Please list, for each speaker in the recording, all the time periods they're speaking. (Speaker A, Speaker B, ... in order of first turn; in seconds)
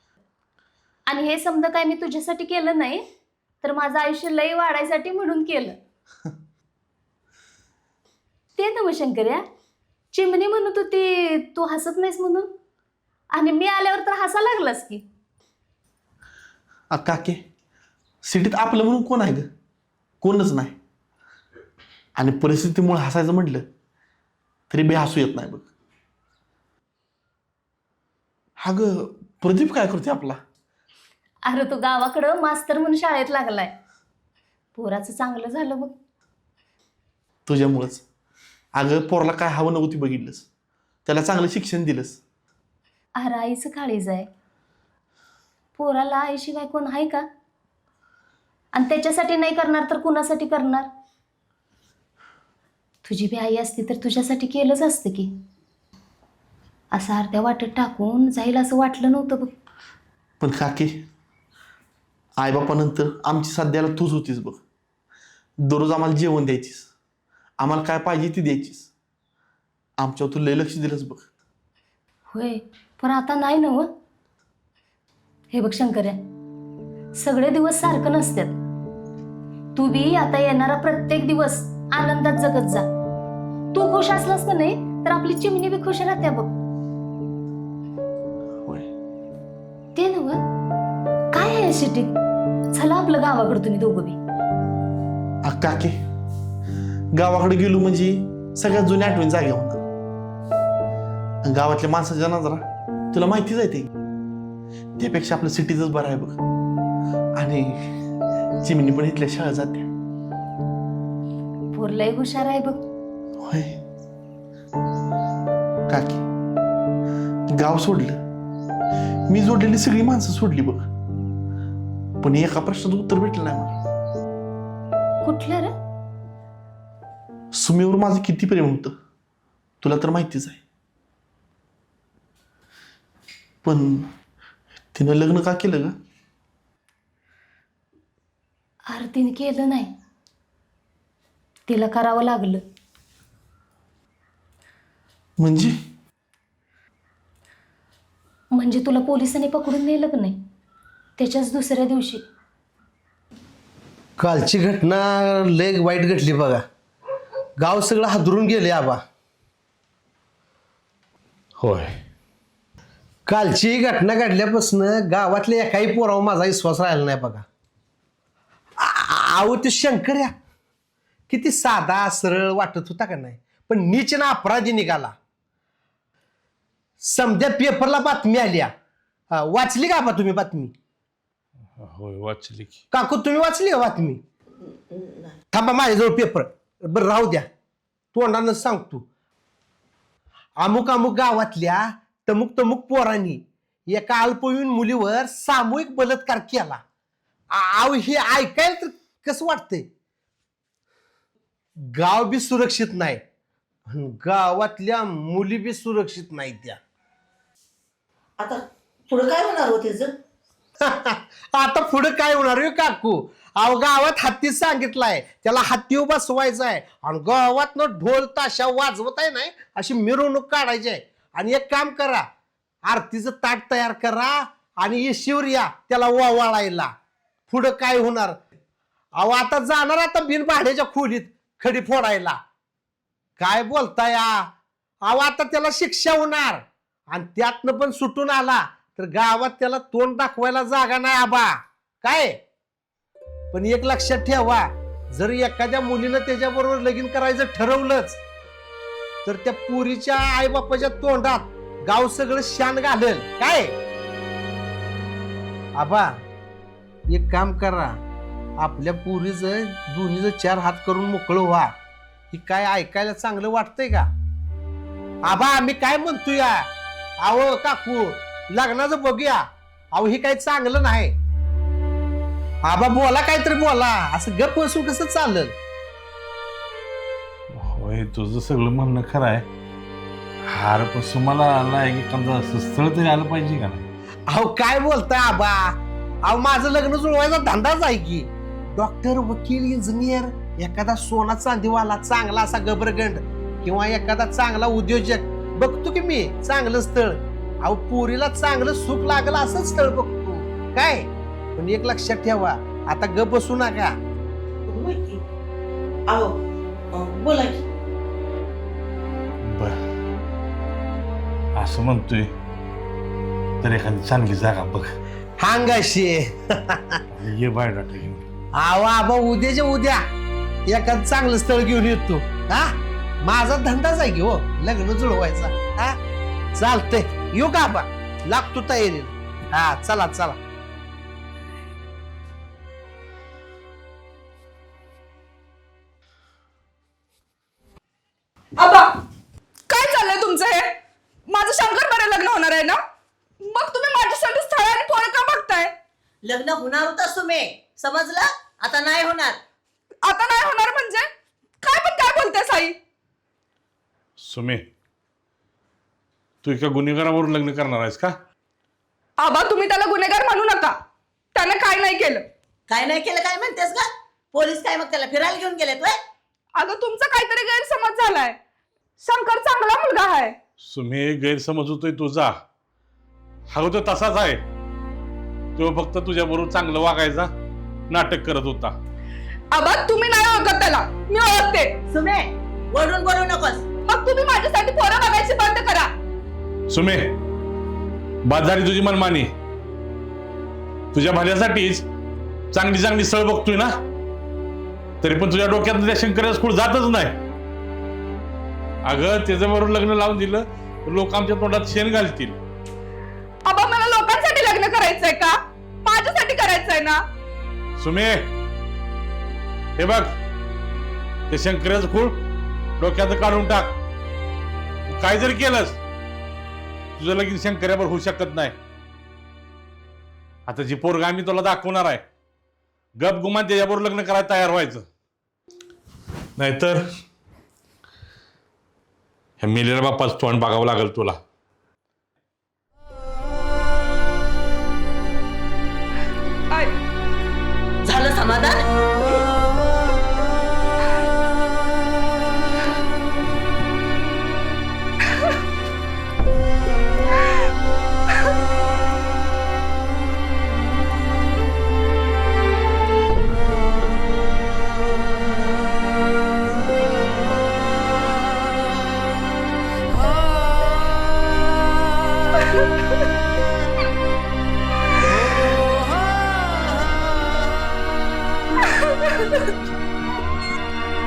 Speaker A: 1.1-3.0, 3.6-5.8, 8.6-9.4, 10.1-12.5, 13.3-15.0, 31.4-33.7, 34.7-35.9, 43.2-44.3, 45.8-47.2, 48.7-50.9, 53.0-55.3, 56.9-59.5, 72.3-73.9, 75.5-76.2, 77.1-78.5, 79.7-82.8, 83.7-86.5, 89.9-90.4, 91.3-92.2, 92.7-94.2, 111.7-112.8, 125.2-125.7, 138.9-139.9, 141.7-142.6, 148.5-150.4, 151.2-152.2
Speaker B: 16.9-17.4, 18.2-19.5, 20.2-20.8, 22.2-23.6, 24.7-25.7, 28.6-30.4, 37.5-38.0, 38.8-40.5, 41.0-42.2, 60.4-61.0, 62.4-64.6, 65.6-66.9, 67.6-68.9, 70.0-71.2, 95.4-96.0, 97.1-99.8, 101.4-103.9, 105.0-106.4, 107.4-107.8, 108.6-109.9, 113.4-113.8, 115.9-116.2, 117.5-118.2, 119.3-120.8, 122.2-123.7, 127.5-128.9, 129.8-130.6, 133.6-134.1, 134.9-135.9, 145.4-145.7
Speaker C: 154.2-156.6, 157.6-159.0, 163.3-167.4, 168.8-170.3, 171.3-175.1, 177.0-178.7, 179.3-180.7, 182.9-184.2, 185.5-187.5, 188.1-189.0, 190.6-196.8, 197.5-199.8, 201.9-203.2, 203.9-206.8, 210.9-222.2, 222.8-226.9, 227.5-228.4, 229.2-232.4, 233.4-234.5, 235.0-242.4, 243.5-248.2, 249.2-253.7, 255.8-256.1, 257.1-257.9, 258.6-261.7, 262.3-264.1, 265.2-266.6, 267.2-271.1, 272.6-275.5, 284.3-303.9, 315.4-317.0, 318.6-320.0, 320.7-322.7, 323.2-326.0, 326.5-330.4
Speaker D: 161.6-161.9, 181.8-182.8, 277.5-279.4, 280.5-283.8, 309.4-309.8, 311.5-312.3, 313.6-314.9, 317.1-318.2, 354.2-354.6, 356.4-358.1, 370.6-372.3, 373.5-374.4, 375.6-377.3, 377.9-378.7, 386.7-387.1, 388.2-389.3, 390.9-391.8, 392.5-393.7, 395.0-397.1, 398.8-402.4, 407.8-408.3, 409.8-410.1, 411.3-412.2, 412.8-413.7, 414.9-415.8, 417.0-418.6, 420.5-422.0, 423.0-424.8, 426.4-426.8, 429.4-431.2
Speaker E: 208.4-210.1, 304.7-305.2, 306.9-307.6, 346.2-349.4, 362.7-365.9, 381.9-383.6, 437.9-438.6
Speaker F: 338.6-338.9, 339.7-340.7, 341.3-342.8, 343.4-345.7, 350.0-351.1, 351.6-352.7, 359.2-360.8, 361.3-362.2, 366.6-368.4, 369.0-370.4, 379.5-381.7, 383.9-385.9, 403.4-407.0